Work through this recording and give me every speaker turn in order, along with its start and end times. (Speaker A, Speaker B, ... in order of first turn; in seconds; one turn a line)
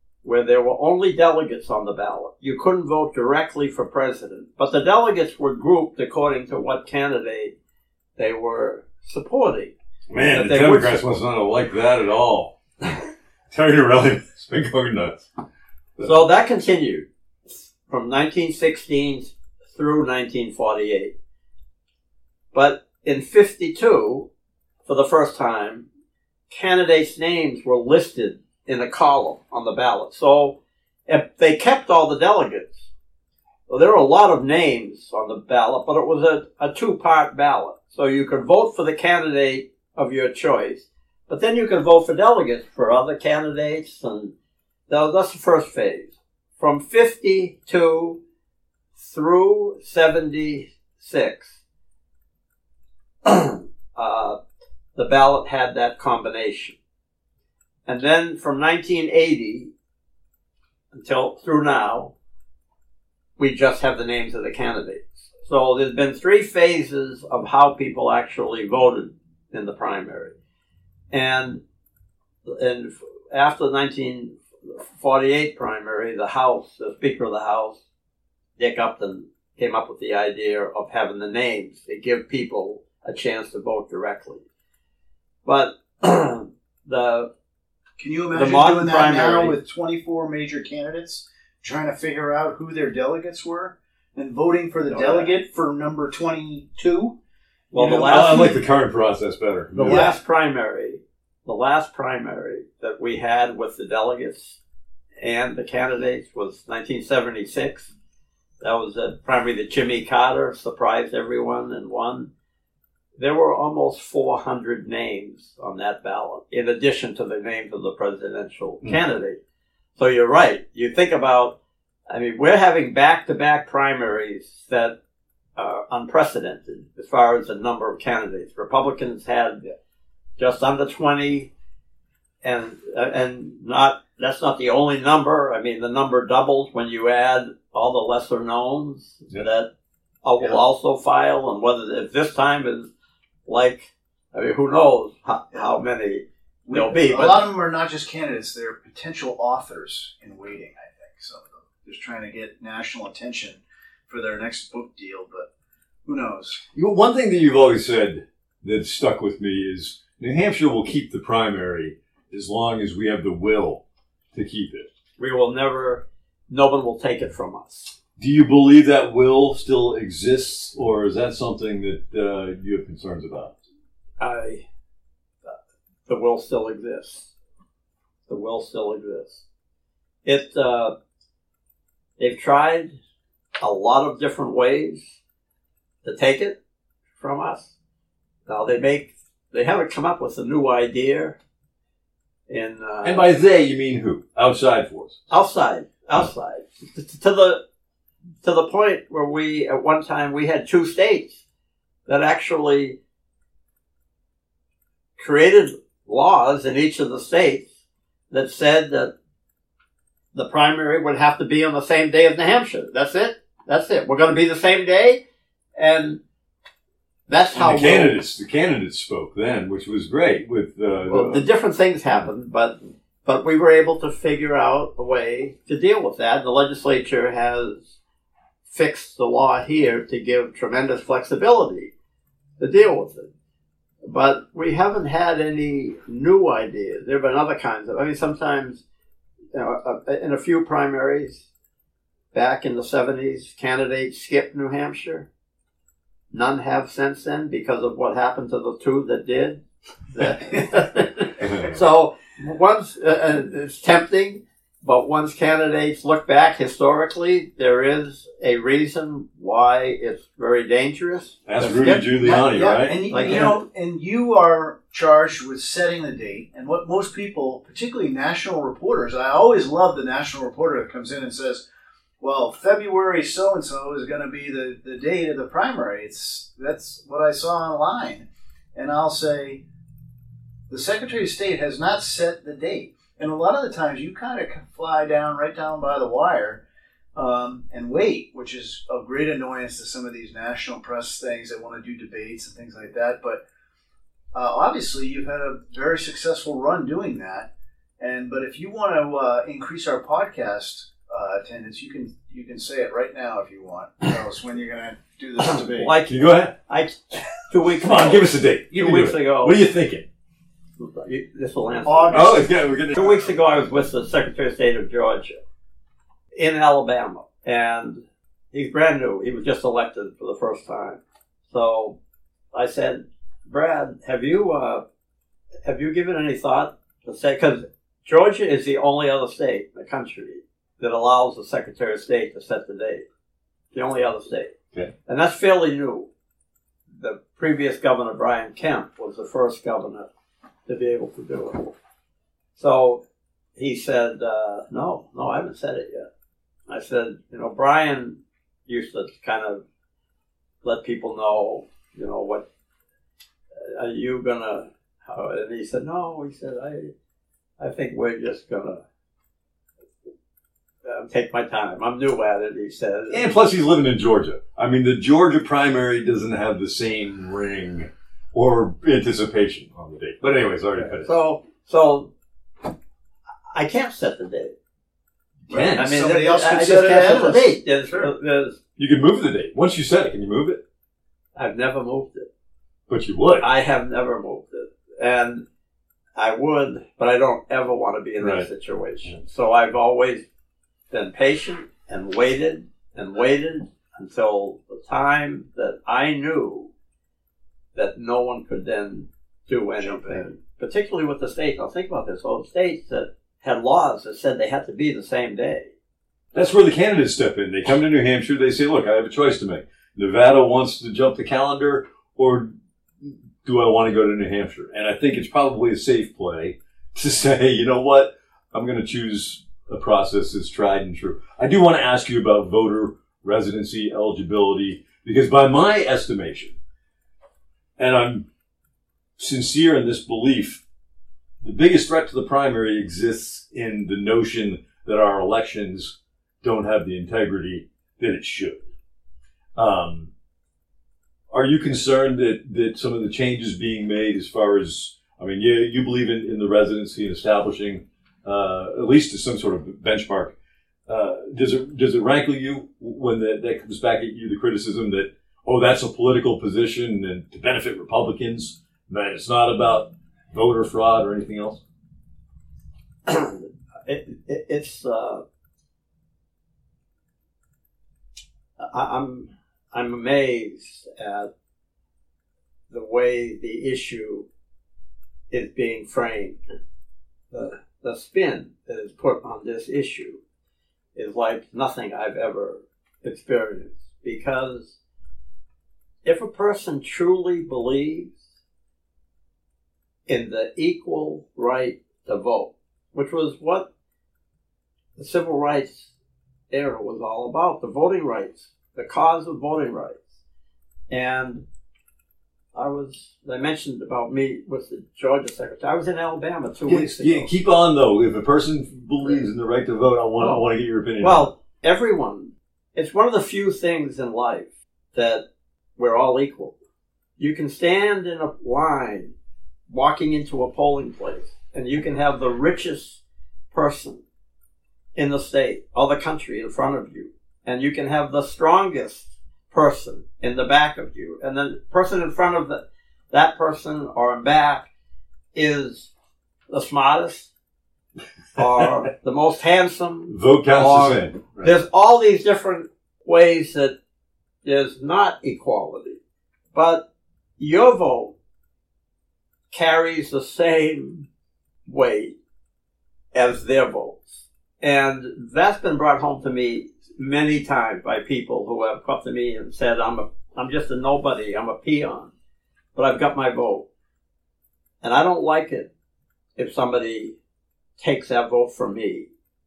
Speaker A: 0.2-7.5
Speaker A: 8.2-9.7
Speaker B: 10.1-12.6
Speaker A: 10.3-10.9
Speaker B: 13.5-15.3
Speaker A: 16.0-21.1
Speaker A: 22.5-24.3
Speaker A: 24.9-25.9
Speaker A: 26.5-32.9
Speaker A: 33.7-44.3
Speaker A: 44.9-48.2
Speaker A: 49.0-51.6
Speaker A: 53.2-54.4
Speaker A: 54.9-56.8
Speaker A: 57.9-59.7
Speaker A: 60.9-62.1
Speaker A: 63.4-70.3
Speaker A: 71.1-71.6
Speaker A: 72.4-77.8
Speaker A: 78.6-84.4
Speaker A: 85.4-87.3
Speaker C: 88.0-97.2
Speaker A: 88.3-89.6
Speaker A: 94.9-95.3
Speaker A: 97.7-98.5
Speaker B: 97.8-100.1
Speaker C: 97.8-98.5
Speaker A: 99.7-104.6
Speaker C: 99.8-100.2
Speaker A: 105.2-107.9
Speaker A: 108.6-112.3
Speaker A: 113.2-119.4
Speaker A: 120.0-121.6
Speaker A: 122.1-125.0
Speaker A: 125.6-129.6
Speaker A: 130.4-131.5
Speaker A: 132.4-139.7
Speaker A: 140.2-142.9
Speaker A: 143.5-147.5
Speaker C: 146.6-155.5
Speaker C: 156.1-156.6
Speaker B: 156.7-164.9
Speaker A: 165.2-167.9
Speaker B: 168.2-173.5
Speaker A: 174.2-174.6
Speaker A: 176.1-177.3
Speaker A: 178.3-179.4
Speaker A: 180.2-180.9
Speaker A: 182.2-183.0
Speaker A: 183.6-185.2
Speaker A: 186.0-186.6
Speaker A: 187.2-187.7
Speaker A: 188.5-191.4
Speaker A: 192.5-193.3
Speaker B: 193.0-195.2
Speaker A: 195.3-197.6
Speaker A: 198.4-201.4
Speaker A: 202.1-203.0
Speaker A: 205.2-207.7
Speaker A: 208.3-209.1
Speaker A: 210.3-215.2
Speaker A: 215.8-216.2
Speaker A: 217.3-218.2
Speaker B: 217.5-221.4
Speaker A: 221.1-228.0
Speaker A: 228.7-231.9
Speaker A: 232.6-233.3
Speaker A: 234.0-238.8
Speaker A: 239.5-241.5
Speaker A: 242.3-245.3
Speaker A: 246.3-261.9
Speaker B: 251.4-251.7
Speaker B: 261.4-263.5
Speaker C: 261.6-271.6
Speaker A: 263.1-263.6
Speaker C: 272.2-279.6
Speaker C: 280.7-286.6
Speaker C: 287.1-293.4
Speaker C: 294.3-305.9
Speaker A: 305.5-309.6
Speaker B: 306.1-306.5
Speaker B: 307.8-310.1
Speaker A: 310.8-315.4
Speaker C: 311.8-312.5
Speaker B: 312.1-313.3
Speaker A: 316.3-322.0
Speaker A: 322.5-324.8
Speaker A: 325.6-333.1
Speaker A: 333.7-334.5
Speaker A: 335.1-336.1
Speaker A: 336.9-340.1
Speaker A: 340.7-341.7
Speaker A: 342.6-343.0
Speaker A: 343.6-346.1
Speaker A: 346.7-349.6
Speaker A: 350.6-352.4
Speaker A: 353.6-356.9
Speaker A: 357.6-358.8
Speaker A: 360.8-363.3
Speaker B: 363.1-371.1
Speaker A: 370.8-372.1
Speaker A: 373.5-374.5
Speaker B: 375.5-375.9
Speaker C: 375.5-378.1
Speaker A: 375.8-378.6
Speaker B: 378.8-380.6
Speaker A: 381.4-382.3
Speaker B: 382.9-383.5
Speaker A: 383.4-385.4
Speaker A: 386.1-390.2
Speaker B: 388.2-388.5
Speaker A: 390.9-396.7
Speaker A: 397.7-405.7
Speaker C: 399.8-400.3
Speaker B: 406.3-426.5
Speaker B: 427.8-428.2
Speaker B: 429.2-430.6
Speaker B: 431.4-438.6
Speaker B: 439.6-440.1
Speaker B: 441.3-450.3
Speaker B: 450.9-461.6
Speaker A: 463.1-465.2
Speaker A: 468.6-471.3
Speaker A: 472.7-474.3
Speaker A: 475.3-476.4
Speaker A: 477.3-480.2
Speaker A: 480.9-484.8
Speaker A: 486.0-488.2
Speaker A: 490.1-493.7
Speaker A: 495.0-495.9
Speaker A: 496.5-500.1
Speaker A: 500.9-501.4
Speaker A: 502.5-507.3
Speaker B: 506.7-511.3
Speaker A: 510.2-510.4
Speaker A: 511.0-515.2
Speaker A: 515.8-516.5
Speaker A: 517.2-519.1
Speaker A: 519.7-523.0
Speaker A: 523.5-524.0
Speaker A: 525.0-534.6
Speaker A: 535.3-535.9
Speaker A: 536.5-537.3
Speaker A: 538.4-543.8
Speaker B: 540.1-541.5
Speaker A: 544.4-546.0
Speaker A: 546.5-546.8
Speaker A: 547.4-548.1
Speaker A: 549.5-551.1
Speaker A: 551.6-552.1
Speaker A: 553.1-562.1
Speaker A: 562.8-563.6
Speaker A: 564.8-565.7
Speaker A: 566.4-567.1
Speaker A: 567.8-569.1